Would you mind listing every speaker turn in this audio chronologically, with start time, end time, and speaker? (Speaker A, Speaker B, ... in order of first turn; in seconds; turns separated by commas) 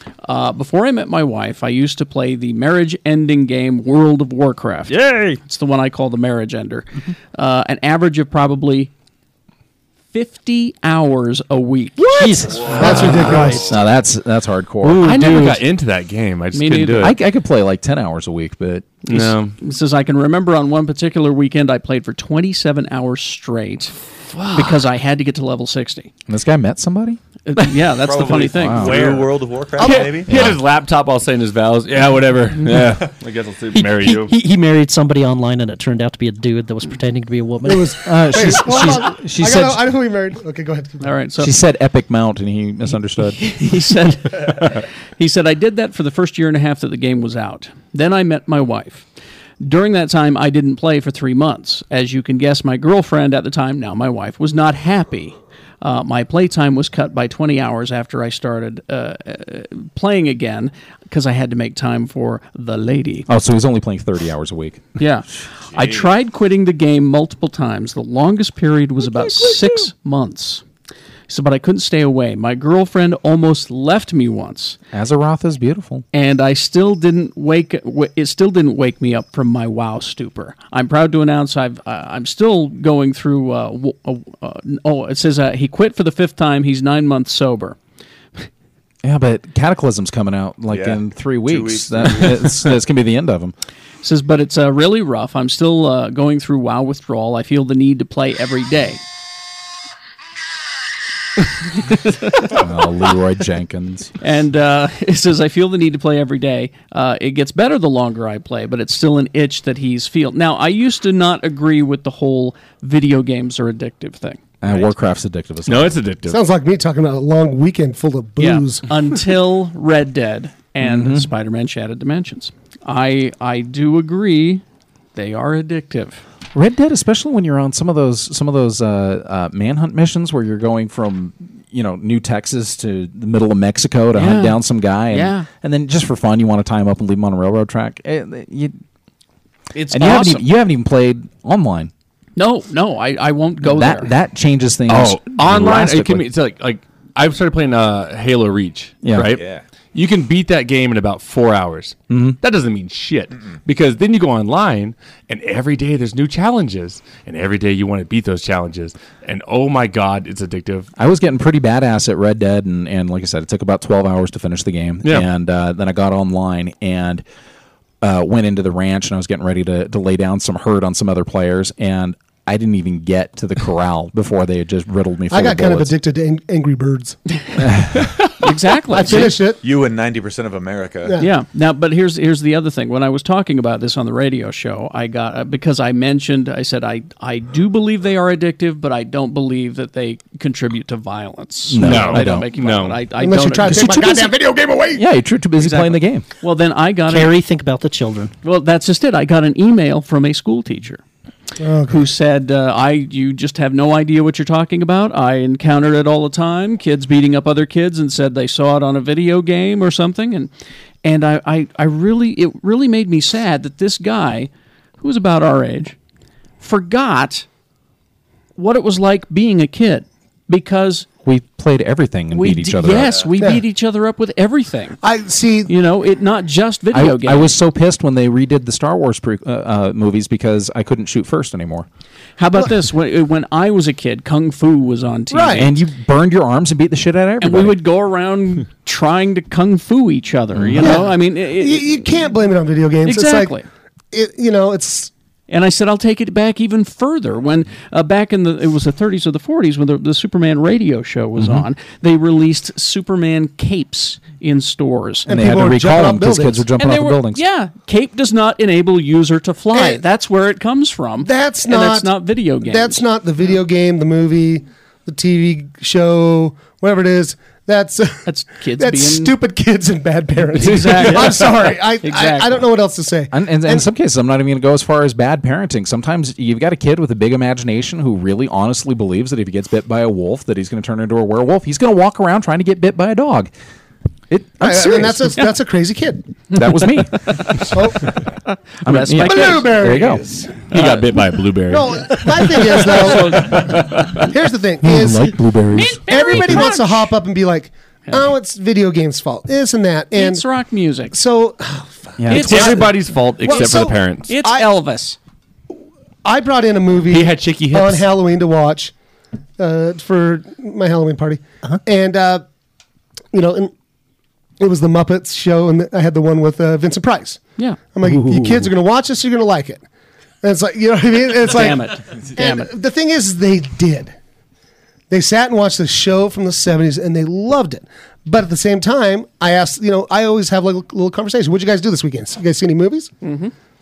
Speaker A: 0.2-8.9, Speaker B: 4.9-5.4, Speaker A: 10.1-12.3, Speaker C: 12.2-15.6, Speaker D: 12.2-12.7, Speaker E: 12.5-13.6, Speaker B: 12.6-13.6, Speaker F: 12.8-13.8, Speaker A: 12.9-13.3, Speaker B: 14.8-17.2, Speaker A: 16.5-17.1, Speaker C: 17.0-19.0, Speaker B: 19.1-19.5, Speaker A: 19.1-23.9, Speaker B: 24.3-24.8, Speaker A: 24.5-26.1, Speaker C: 26.3-27.2, Speaker A: 27.4-29.0, Speaker E: 28.0-30.5, Speaker C: 28.5-29.0, Speaker B: 28.8-34.3, Speaker C: 30.3-30.6, Speaker D: 33.7-38.8, Speaker F: 37.6-41.1, Speaker C: 38.0-39.8, Speaker A: 41.0-41.5, Speaker C: 41.4-43.6, Speaker A: 43.4-49.1, Speaker A: 49.6-63.3, Speaker C: 63.3-65.0, Speaker A: 65.0-70.6, Speaker E: 65.7-66.1, Speaker C: 69.0-69.9, Speaker A: 71.3-74.8, Speaker C: 74.9-76.0, Speaker A: 76.1-87.8, Speaker C: 89.0-93.5, Speaker E: 90.7-92.7, Speaker A: 94.0-99.0, Speaker A: 101.9-102.5, Speaker C: 102.4-104.1, Speaker A: 104.2-114.9, Speaker C: 114.6-116.0, Speaker B: 115.7-116.4, Speaker F: 116.3-118.8, Speaker A: 118.4-124.6, Speaker C: 120.8-121.3, Speaker A: 125.1-126.2, Speaker C: 126.5-138.8, Speaker A: 134.1-135.5, Speaker A: 139.7-140.5, Speaker C: 139.9-141.9, Speaker A: 142.4-144.1, Speaker C: 143.6-146.3, Speaker B: 144.9-160.9, Speaker C: 149.0-149.4, Speaker E: 149.3-149.6, Speaker C: 152.1-152.4, Speaker C: 160.9-167.2, Speaker B: 165.0-165.3, Speaker C: 168.0-175.9, Speaker F: 175.3-177.2, Speaker C: 177.7-178.0, Speaker A: 178.4-179.4, Speaker F: 178.9-179.6, Speaker E: 179.6-181.2, Speaker F: 181.0-181.3, Speaker A: 181.2-193.9, Speaker C: 191.7-192.5, Speaker B: 191.8-193.0, Speaker F: 193.2-195.0, Speaker C: 193.6-196.2, Speaker A: 195.6-197.3, Speaker D: 197.1-198.3, Speaker A: 198.4-201.0, Speaker F: 201.6-202.1, Speaker A: 201.8-210.5, Speaker A: 211.0-216.0, Speaker A: 216.6-217.4, Speaker A: 218.6-221.1, Speaker C: 221.2-223.2, Speaker A: 222.3-225.0, Speaker F: 223.4-223.6, Speaker F: 225.0-225.7, Speaker A: 225.7-227.6, Speaker C: 226.9-231.8, Speaker A: 232.4-235.8, Speaker F: 235.3-235.7, Speaker C: 235.5-237.8, Speaker A: 237.4-242.1, Speaker C: 240.5-241.0, Speaker F: 240.8-243.6, Speaker A: 243.0-243.6, Speaker F: 244.1-245.1, Speaker A: 245.5-255.3, Speaker C: 251.3-251.7, Speaker F: 255.3-256.7, Speaker C: 255.3-257.4, Speaker A: 256.8-263.0, Speaker F: 259.7-260.0, Speaker F: 261.2-268.2, Speaker A: 268.2-269.3, Speaker F: 268.8-273.9, Speaker A: 270.5-272.6, Speaker B: 270.6-271.3, Speaker C: 273.3-283.5, Speaker C: 284.3-285.4, Speaker F: 284.6-286.2, Speaker C: 286.5-287.7, Speaker A: 287.2-287.8, Speaker F: 287.7-288.2, Speaker A: 288.8-289.8, Speaker C: 288.8-290.2, Speaker F: 289.2-290.7, Speaker B: 290.7-294.2, Speaker A: 290.7-291.2, Speaker F: 291.7-295.4, Speaker A: 292.0-294.2, Speaker C: 294.8-296.7, Speaker A: 295.7-297.1, Speaker F: 295.9-300.4, Speaker A: 300.1-301.1, Speaker F: 301.1-304.7, Speaker C: 302.2-302.8, Speaker A: 302.3-302.9, Speaker B: 302.3-304.3, Speaker A: 303.4-305.2, Speaker F: 306.2-308.9, Speaker B: 307.1-308.1, Speaker F: 309.6-312.4, Speaker F: 313.3-313.7, Speaker F: 314.6-317.4, Speaker F: 317.9-319.8, Speaker F: 320.4-324.1, Speaker A: 321.4-322.7, Speaker F: 325.1-333.1, Speaker A: 333.2-333.5